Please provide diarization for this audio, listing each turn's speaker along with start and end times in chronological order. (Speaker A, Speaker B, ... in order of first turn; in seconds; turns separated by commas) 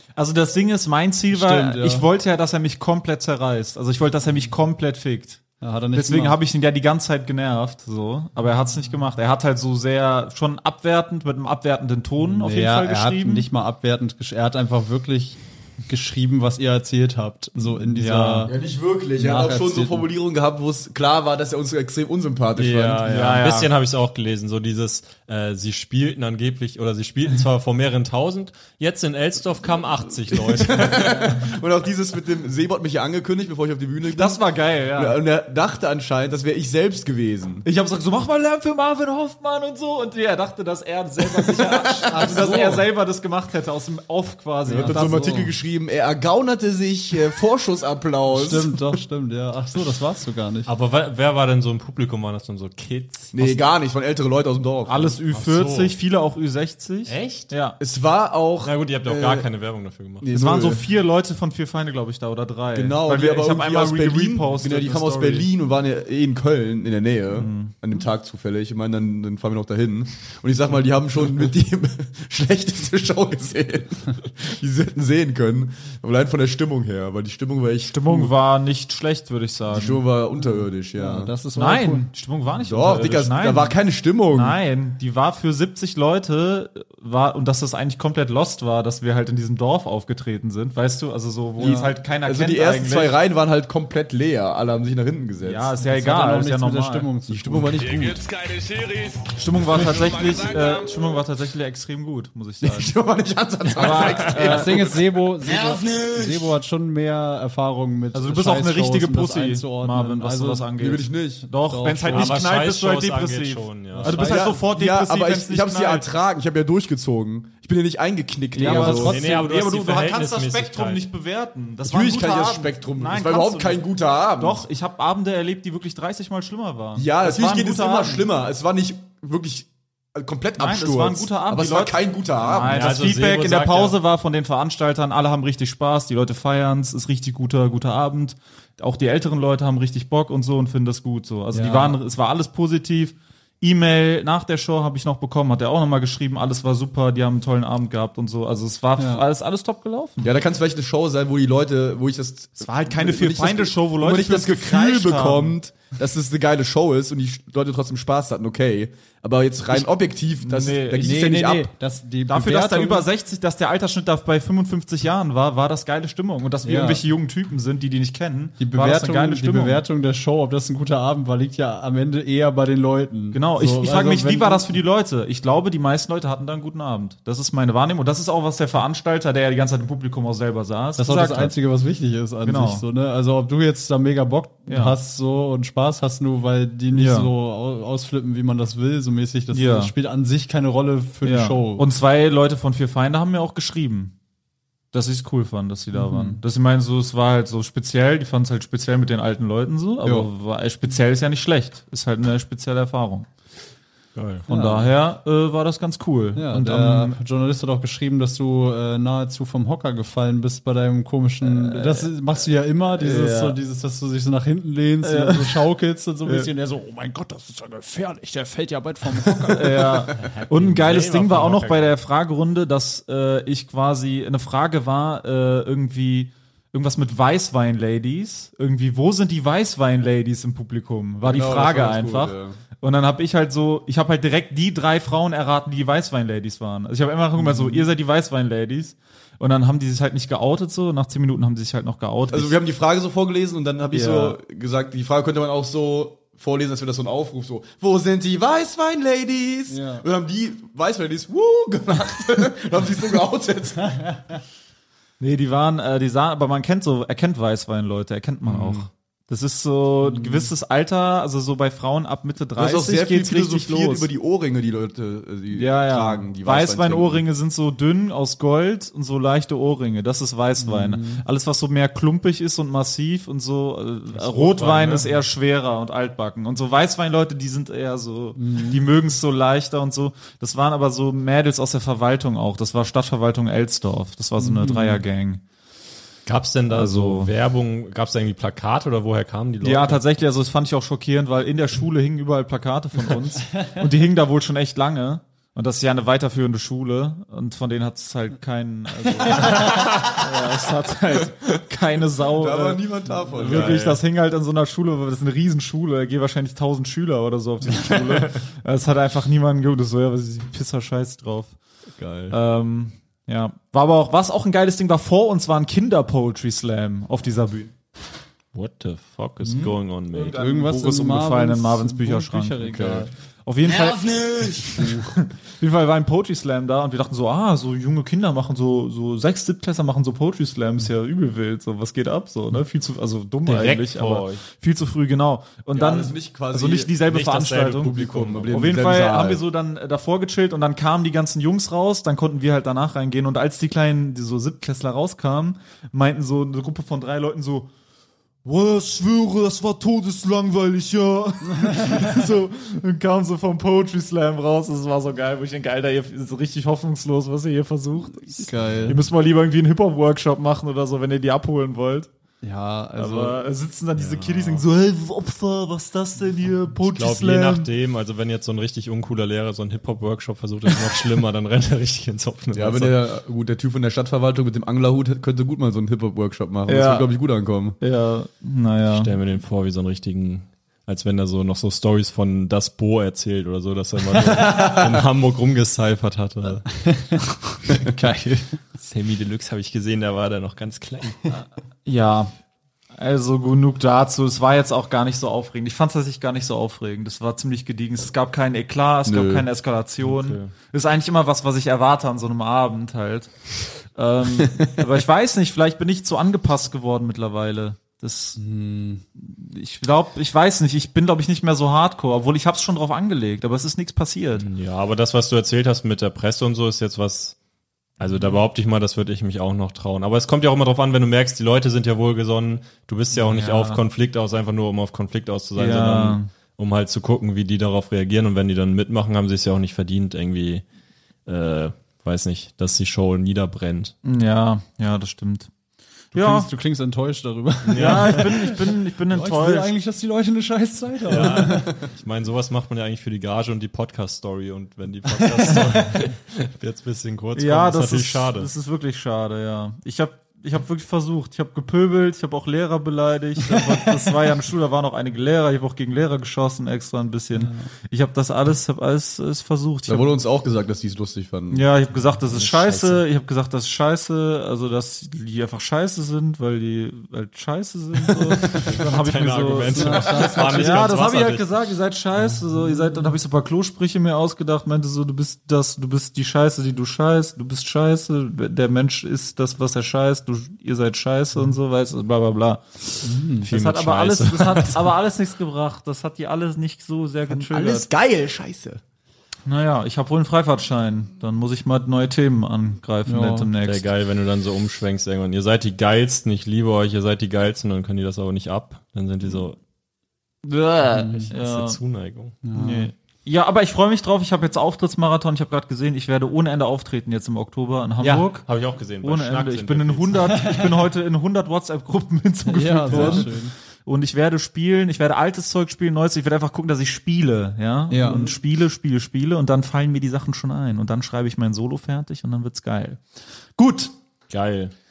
Speaker A: 0.1-13.5, Speaker B: 1.3-2.1, Speaker B: 5.6-6.4, Speaker B: 12.2-18.5, Speaker A: 17.7-18.5, Speaker C: 18.5-23.1, Speaker B: 19.2-20.1, Speaker D: 22.6-31.5, Speaker A: 23.0-23.7, Speaker C: 30.3-34.4, Speaker A: 34.1-35.2, Speaker C: 34.9-37.6, Speaker A: 37.6-45.5, Speaker C: 41.4-42.8, Speaker B: 42.2-42.8, Speaker B: 44.7-45.4, Speaker C: 44.7-49.0, Speaker B: 48.3-50.7, Speaker D: 50.6-53.5, Speaker C: 53.3-55.2, Speaker A: 54.9-57.8, Speaker D: 55.3-56.0, Speaker D: 57.1-57.5, Speaker C: 57.8-59.5, Speaker D: 58.6-60.3, Speaker C: 60.2-60.9, Speaker A: 60.3-65.5, Speaker C: 62.7-78.3, Speaker A: 67.4-67.7, Speaker A: 77.9-80.0, Speaker C: 79.7-81.3, Speaker B: 80.4-82.1, Speaker A: 81.5-83.8, Speaker C: 82.6-84.6, Speaker A: 84.3-93.2, Speaker C: 91.6-95.7, Speaker B: 91.6-91.9, Speaker A: 95.4-97.1, Speaker B: 95.8-97.9, Speaker C: 97.3-98.2, Speaker E: 97.8-101.0, Speaker A: 99.4-103.0, Speaker C: 102.6-105.0, Speaker A: 103.7-104.9, Speaker B: 104.3-110.7, Speaker A: 108.1-116.1, Speaker C: 110.8-111.5, Speaker B: 111.6-112.4, Speaker D: 112.1-114.2, Speaker B: 113.9-114.5, Speaker C: 114.1-119.2, Speaker B: 118.6-119.4, Speaker A: 118.6-123.9, Speaker D: 118.8-121.0, Speaker C: 121.9-124.6, Speaker A: 124.4-128.2, Speaker C: 127.0-132.8, Speaker A: 130.6-150.3, Speaker D: 132.7-134.0, Speaker B: 141.5-142.0, Speaker B: 149.0-149.2, Speaker C: 150.2-161.7, Speaker A: 152.6-155.6, Speaker A: 160.4-161.2, Speaker B: 161.0-163.1, Speaker A: 162.3-169.8, Speaker B: 166.6-167.0, Speaker B: 168.6-174.8, Speaker A: 173.3-181.5, Speaker B: 181.0-191.8, Speaker A: 182.4-182.8, Speaker A: 184.7-185.0, Speaker A: 186.9-187.3, Speaker A: 189.5-189.9, Speaker A: 191.2-194.1, Speaker A: 194.9-203.3, Speaker B: 195.9-196.4, Speaker B: 200.0-200.3, Speaker D: 204.1-204.5, Speaker B: 204.5-204.9, Speaker A: 204.5-207.2, Speaker B: 206.3-220.0, Speaker A: 211.4-212.1, Speaker A: 212.9-213.6, Speaker A: 215.0-215.6, Speaker A: 216.2-216.5, Speaker A: 219.5-242.6, Speaker D: 220.2-221.9, Speaker C: 231.2-232.6, Speaker B: 237.4-237.8, Speaker C: 242.3-254.0, Speaker A: 243.9-244.4, Speaker B: 249.7-250.0, Speaker A: 255.2-264.1, Speaker D: 258.5-258.9, Speaker B: 260.1-260.5, Speaker C: 262.6-267.2, Speaker A: 265.5-285.4, Speaker B: 270.6-271.2, Speaker D: 274.1-275.1, Speaker B: 278.4-278.9, Speaker B: 284.4-285.0, Speaker D: 286.3-290.0, Speaker A: 286.7-287.3, Speaker A: 289.6-311.6, Speaker D: 299.4-300.1, Speaker C: 302.4-303.9, Speaker D: 303.4-304.0, Speaker D: 307.7-308.4, Speaker C: 312.0-312.3, Speaker A: 312.3-317.7, Speaker D: 318.5-320.4, Speaker A: 319.4-338.0, Speaker B: 320.3-323.1, Speaker C: 322.6-323.1, Speaker D: 333.5-334.4, Speaker C: 335.7-337.0, Speaker D: 337.1-338.7, Speaker C: 337.8-339.4, Speaker A: 338.5-347.7, Speaker A: 348.4-362.1, Speaker B: 358.4-359.1, Speaker B: 362.4-363.5, Speaker A: 363.0-367.7, Speaker D: 364.0-364.6, Speaker D: 366.8-373.0, Speaker C: 372.5-377.8, Speaker A: 376.7-377.1, Speaker A: 377.8-379.1, Speaker D: 378.9-386.7, Speaker B: 386.9-388.6, Speaker D: 388.8-391.3, Speaker A: 391.3-392.3, Speaker A: 392.9-403.3, Speaker C: 399.1-399.5, Speaker D: 400.0-400.5, Speaker A: 403.9-408.4, Speaker B: 408.4-409.0, Speaker A: 409.2-414.5, Speaker D: 414.4-417.4, Speaker D: 418.0-430.6, Speaker A: 423.1-423.8, Speaker A: 425.6-426.3, Speaker D: 431.3-433.9, Speaker A: 434.0-435.5, Speaker A: 436.1-436.5, Speaker B: 436.1-441.7, Speaker D: 437.6-438.4, Speaker A: 437.8-439.7, Speaker D: 441.1-448.5, Speaker A: 441.2-441.4, Speaker A: 447.4-460.1, Speaker B: 457.4-457.7, Speaker C: 459.9-461.6, Speaker A: 461.5-487.9, Speaker D: 462.3-463.0, Speaker D: 468.4-471.5, Speaker B: 469.7-470.9, Speaker B: 483.0-483.5, Speaker D: 483.4-484.9, Speaker C: 487.3-488.8, Speaker A: 489.5-493.9, Speaker B: 493.1-493.5, Speaker D: 493.6-499.6, Speaker A: 500.4-501.8, Speaker B: 500.9-501.3, Speaker D: 501.1-502.4, Speaker B: 502.4-502.9, Speaker A: 502.5-508.4, Speaker D: 508.0-510.6, Speaker A: 509.0-523.0, Speaker B: 512.5-513.5, Speaker D: 512.9-513.3, Speaker B: 517.9-518.3, Speaker A: 523.6-523.9, Speaker D: 524.3-524.7